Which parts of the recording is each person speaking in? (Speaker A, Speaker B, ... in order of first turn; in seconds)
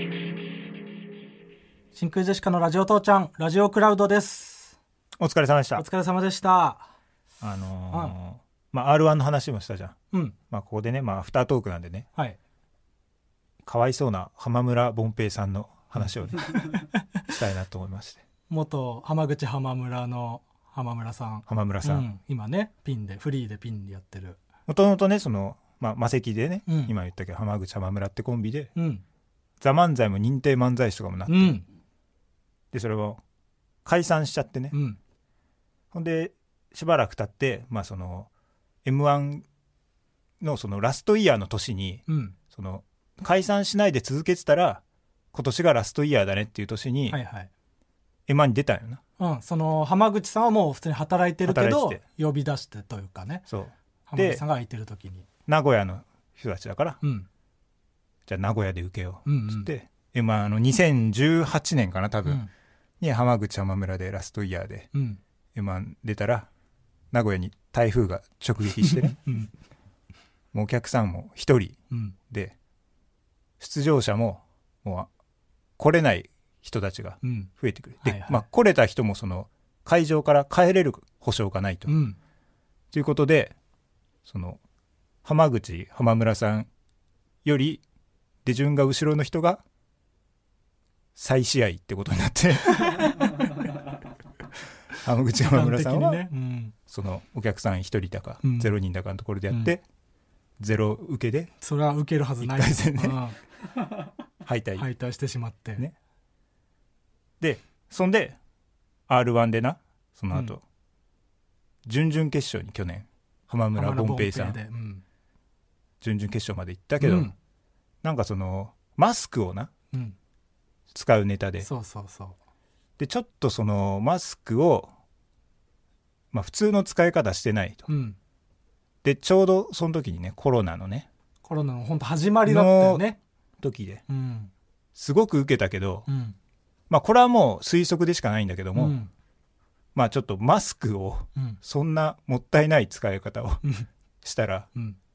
Speaker A: 1.9-4.8, 5.8-6.9, 7.9-8.2, 18.5-24.4, 26.7-26.9, 28.7-29.0, 31.3-31.6, 34.7-35.0, 42.1-42.4, 47.1-47.5, 49.2-53.5, 54.1-55.3, 57.0-57.3, 59.2-59.7, 64.9-65.2, 68.8-69.5, 71.9-72.2, 77.2-77.5, 78.0-78.4, 81.9-82.2, 95.4-96.7, 98.4-98.7, 99.5-99.8, 101.6-103.4, 104.8-105.8, 113.7-115.0, 117.0-117.3, 121.6-122.3, 127.9-128.2, 131.4-133.2, 134.1-134.5, 136.1-136.3, 138.7-139.1
Speaker B: 5.2-5.8, 7.4-9.9, 10.5-12.1, 13.7-18.2, 21.5-22.1, 24.7-28.7, 29.6-31.6, 32.7-33.2, 33.8-34.8, 35.9-38.3, 38.8-39.4, 40.4-44.8, 45.3-47.2, 48.3-49.0, 51.4-52.0, 53.5-54.4, 55.5-57.0, 58.3-62.4, 63.0-64.9, 65.5-66.5, 67.1-69.2, 70.5-71.8, 72.3-72.5, 73.6-75.1, 75.8-82.0, 82.9-83.5, 84.2-84.6, 85.2-86.7, 87.4-87.8, 88.4-89.6, 91.2-93.5, 95.0-96.2, 96.9-99.8, 100.6-101.5, 102.4-103.2, 104.4-104.8, 107.4-108.4, 109.1-110.6, 111.8-114.6, 116.0-117.3, 118.0-119.7, 120.9-121.7, 123.0-124.9, 126.3-127.9, 129.0-131.1, 132.4-133.1, 133.6-134.0, 134.9-136.1, 136.9-138.9, 139.9-143.6, 144.2-144.7